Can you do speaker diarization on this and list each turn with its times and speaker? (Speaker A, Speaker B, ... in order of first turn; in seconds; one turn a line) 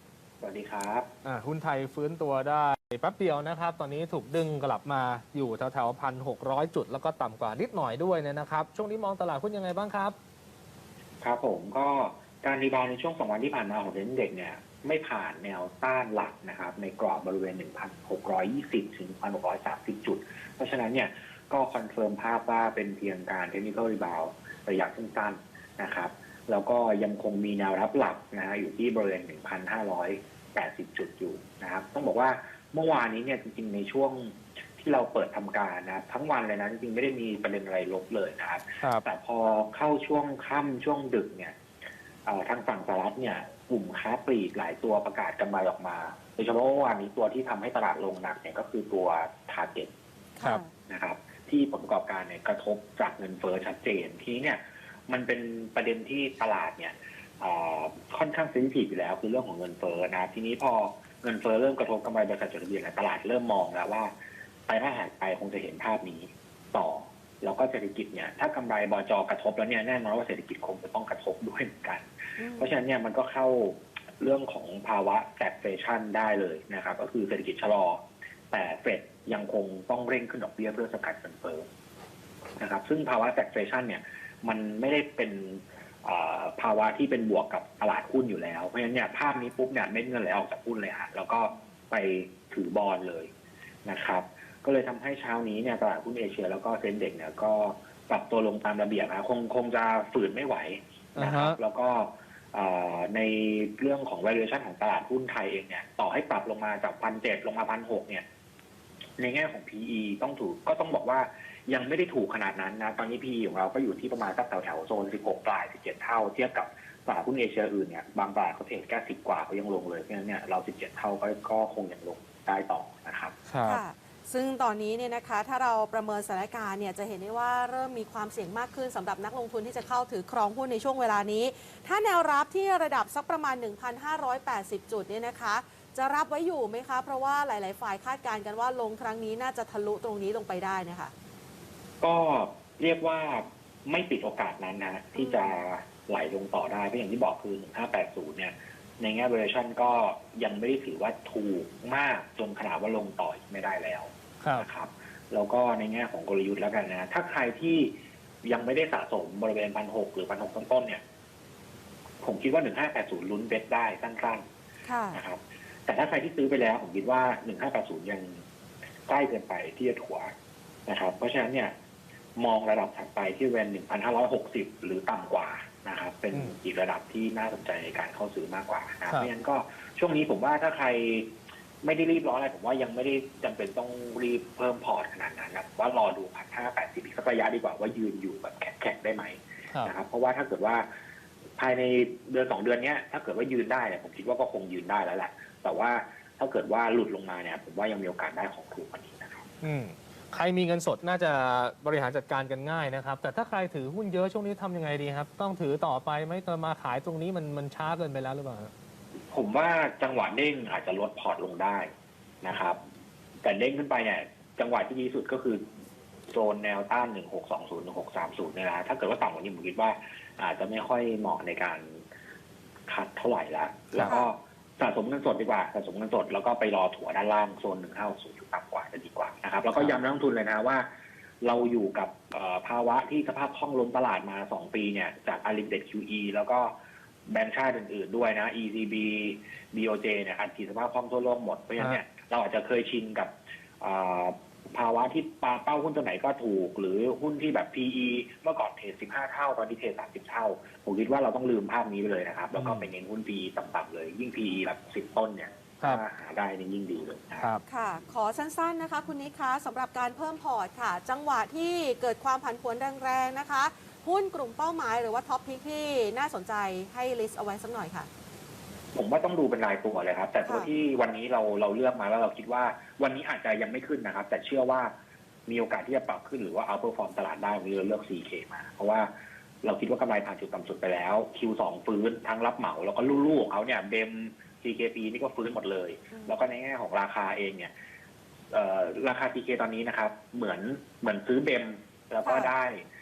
Speaker A: 0.4-1.1
Speaker B: 1.2-10.2
Speaker A: 11.2-41.5
Speaker A: 42.2-49.9
Speaker C: 50.4-50.7
Speaker A: 50.9-64.1
Speaker A: 64.7-72.1
Speaker C: 72.4-72.8
Speaker A: 72.6-81.7
Speaker A: 82.6-93.3
Speaker A: 93.8-108.2
Speaker B: 101.2-101.6
Speaker A: 109.2-123.3
Speaker B: 123.5-123.8
Speaker C: 123.7-141.1
Speaker A: 142.0-161.0
Speaker C: 145.2-145.5
Speaker B: 154.4-154.7
Speaker A: 162.2-164.4
Speaker C: 164.9-165.2
Speaker A: 165.1-168.4
Speaker A: 169.1-170.3
Speaker A: 170.9-171.7
Speaker A: 172.4-181.3
Speaker A: 181.8-190.8
Speaker A: 191.6-199.4
Speaker B: 199.6-208.7
Speaker A: 209.3-211.9
Speaker A: 212.4-212.8
Speaker A: 213.4-215.6
Speaker A: 216.3-222.0
Speaker A: 222.9-230.8
Speaker A: 231.4-236.7
Speaker A: 237.3-257.5
Speaker B: 252.5-252.9
Speaker C: 257.7-268.1
Speaker A: 268.9-274.9
Speaker C: 270.4-270.7
Speaker A: 275.5-279.1
Speaker A: 279.6-287.7
Speaker C: 286.1-286.4
Speaker A: 288.5-292.8
Speaker C: 292.2-292.5